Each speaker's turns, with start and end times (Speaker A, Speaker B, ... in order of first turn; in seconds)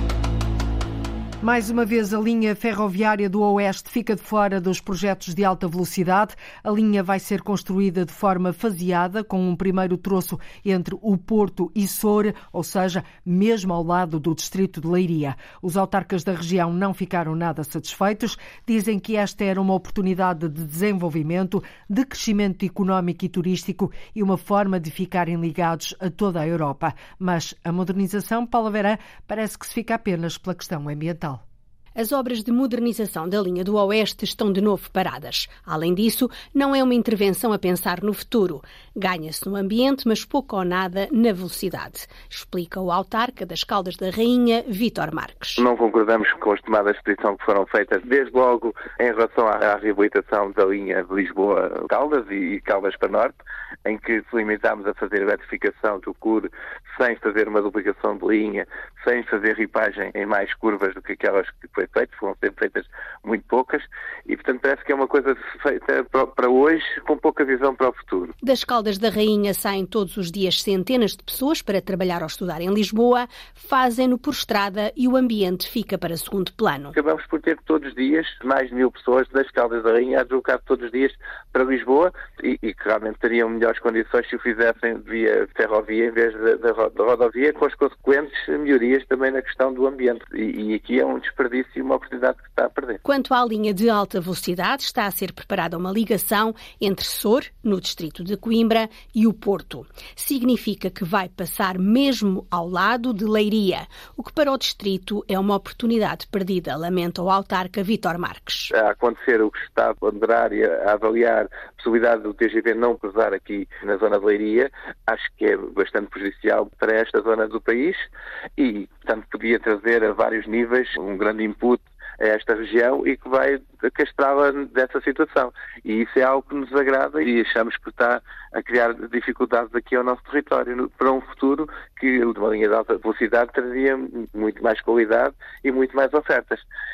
Speaker A: 1.4-31.4
Speaker B: 32.0-45.6, 68.4-73.3, 73.8-76.9, 93.1-108.7
Speaker C: 45.6-68.3, 76.9-93.0, 108.7-136.6